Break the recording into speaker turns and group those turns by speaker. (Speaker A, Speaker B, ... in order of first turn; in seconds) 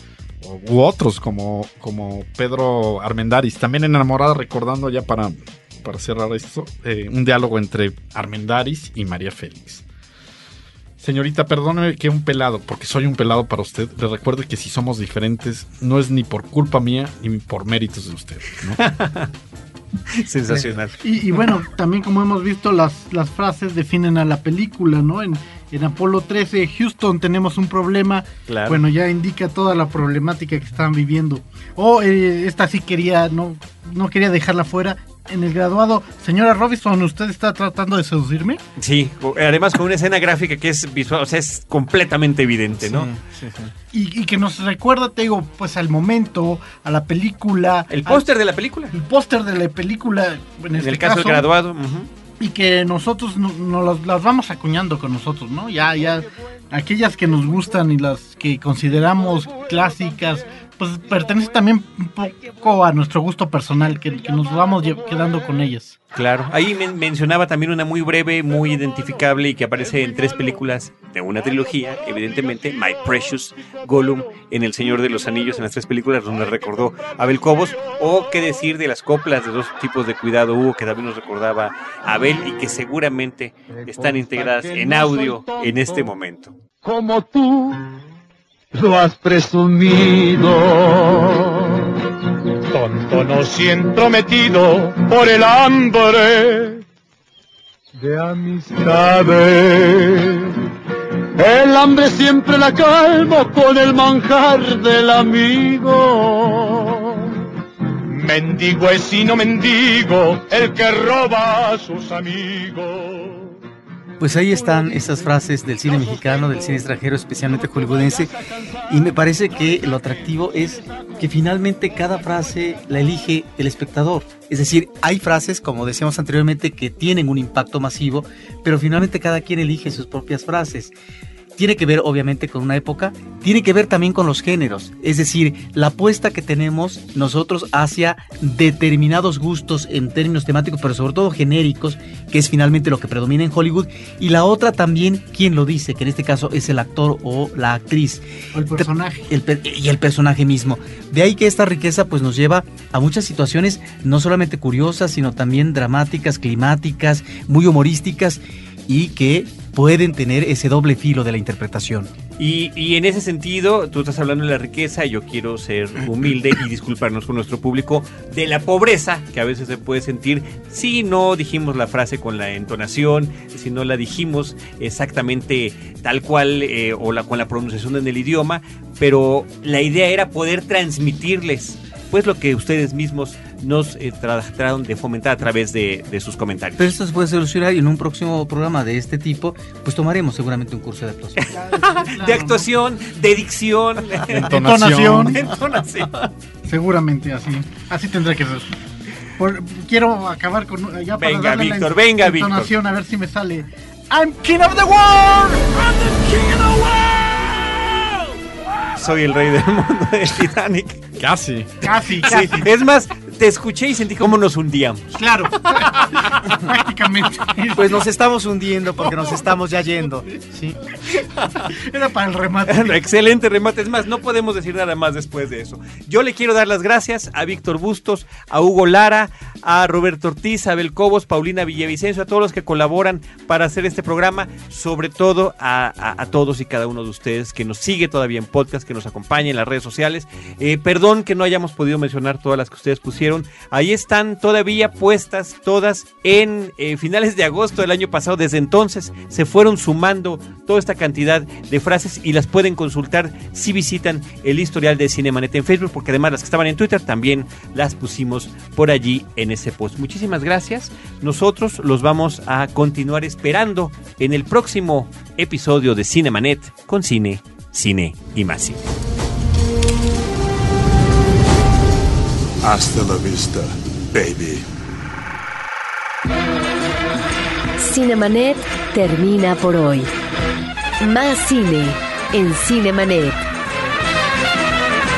Speaker A: 0.4-9.8, 11.0-18.8, 194.3-195.4, 211.2-211.9
Speaker B: 18.8-19.3, 20.2-21.0, 28.5-28.8, 38.8-43.1, 47.9-48.9, 50.8-52.1, 66.1-86.5, 162.4-186.9, 191.4-196.3, 201.2-202.7, 208.9-211.1, 212.2-215.2, 215.7-216.4, 221.4-221.7, 222.7-268.8
Speaker C: 21.0-38.6, 43.9-48.2, 48.9-51.4, 52.4-66.0, 148.5-149.2, 191.5-192.7, 194.3-195.4, 196.7-198.7, 199.4-207.1, 211.8-212.7, 215.2-218.0, 221.7-223.0
Speaker D: 42.8-43.7, 114.2-118.3, 118.9-130.9, 131.6-148.2, 148.8-162.1, 186.8-191.4, 217.7-220.8
Speaker E: 83.7-86.1, 86.8-87.9, 88.7-91.9, 92.7-96.8, 98.0-100.5, 101.4-107.3, 108.1-113.5
Speaker F: 272.6-274.6
Speaker G: 277.8-280.1, 281.0-283.4